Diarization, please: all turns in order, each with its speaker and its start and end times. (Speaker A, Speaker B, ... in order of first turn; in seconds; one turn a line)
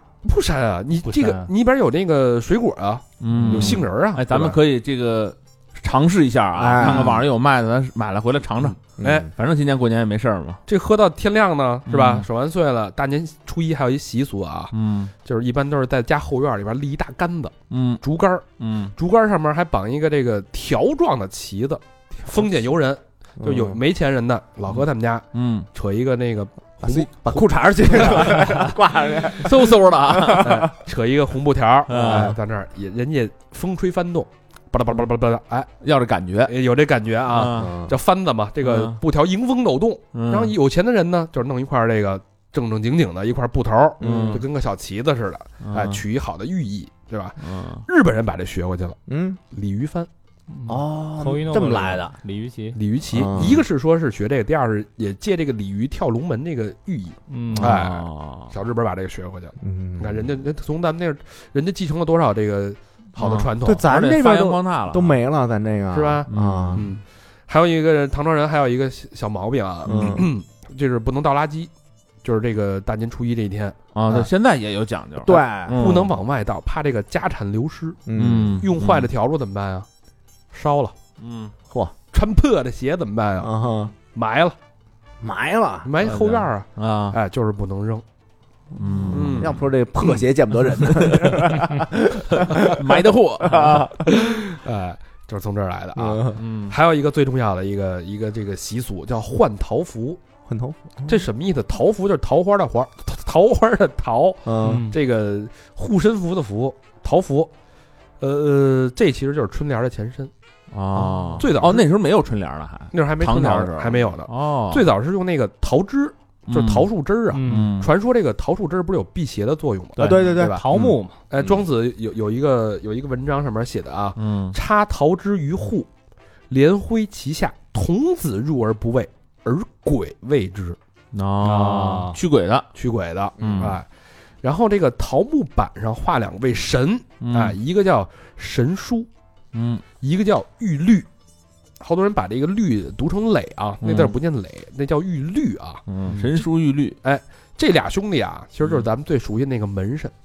Speaker A: 0.2-4.6
Speaker B: 1.0-1.5
Speaker C: 3.2-8.8
Speaker D: 3.3-3.8
Speaker D: 6.5-7.2
Speaker A: 6.8-7.2
Speaker A: 9.0-9.3
Speaker D: 9.0-9.3
Speaker C: 9.3-10.6
Speaker A: 10.7-14.7
Speaker C: 11.9-12.2
Speaker C: 14.7-15.1
Speaker A: 15.2-28.6
Speaker C: 17.7-18.0
Speaker C: 18.6-18.9
Speaker D: 23.4-23.8
Speaker C: 25.3-25.7
Speaker D: 26.8-30.7
Speaker C: 28.2-28.5
Speaker C: 29.3-30.7
Speaker A: 30.3-35.7
Speaker C: 31.9-32.4
Speaker D: 31.9-32.4
Speaker C: 35.8-36.5
Speaker A: 36.5-49.0
Speaker C: 37.3-37.7
Speaker D: 37.5-37.9
Speaker C: 38.6-39.0
Speaker C: 40.1-40.5
Speaker D: 44.0-44.4
Speaker C: 44.0-44.4
Speaker C: 45.6-46.0
Speaker C: 47.4-47.8
Speaker D: 49.1-49.4
Speaker A: 49.5-50.1
Speaker B: 50.5-52.8
Speaker D: 50.7-52.1
Speaker A: 52.7-63.9
Speaker D: 53.1-53.6
Speaker B: 57.3-57.7
Speaker C: 57.5-58.5
Speaker D: 59.6-60.2
Speaker C: 63.2-65.2
Speaker D: 63.6-66.9
Speaker A: 65.9-71.7
Speaker C: 66.3-66.9
Speaker D: 69.8-70.3
Speaker C: 69.9-70.2
Speaker A: 72.2-73.8
Speaker C: 73.9-76.1
Speaker D: 75.2-75.9
Speaker A: 75.7-78.0
Speaker D: 78.1-78.6
Speaker C: 78.1-79.1
Speaker A: 78.6-79.9
Speaker A: 80.5-80.9
Speaker C: 81.2-81.5
Speaker A: 82.1-83.5
Speaker D: 83.4-83.9
Speaker A: 84.1-84.5
Speaker D: 85.2-85.9
Speaker A: 85.8-88.0
Speaker C: 86.0-87.2
Speaker C: 88.7-89.6
Speaker A: 89.1-89.6
Speaker D: 89.1-94.2
Speaker C: 90.8-91.8
Speaker C: 92.3-93.9
Speaker A: 94.1-100.2
Speaker D: 96.0-96.4
Speaker C: 96.4-96.7
Speaker D: 100.5-101.2
Speaker A: 101.0-107.5
Speaker D: 104.5-104.9
Speaker B: 104.6-104.9
Speaker A: 108.2-110.3
Speaker C: 110.7-114.8
Speaker A: 111.4-111.9
Speaker A: 112.9-120.6
Speaker C: 116.5-116.9
Speaker B: 117.3-117.8
Speaker C: 117.4-117.9
Speaker D: 120.0-120.9
Speaker B: 120.0-121.2
Speaker A: 121.3-125.9
Speaker C: 124.2-124.5
Speaker A: 126.5-130.8
Speaker C: 131.1-132.7
Speaker B: 131.4-132.2
Speaker A: 132.8-133.8
Speaker C: 133.4-133.8
Speaker D: 133.4-133.7
Speaker A: 134.4-139.1
Speaker C: 137.2-137.6
Speaker C: 139.5-139.8
Speaker A: 140.0-141.1
Speaker A: 141.8-146.4
Speaker C: 143.8-144.1
Speaker C: 145.9-147.0
Speaker A: 147.0-150.1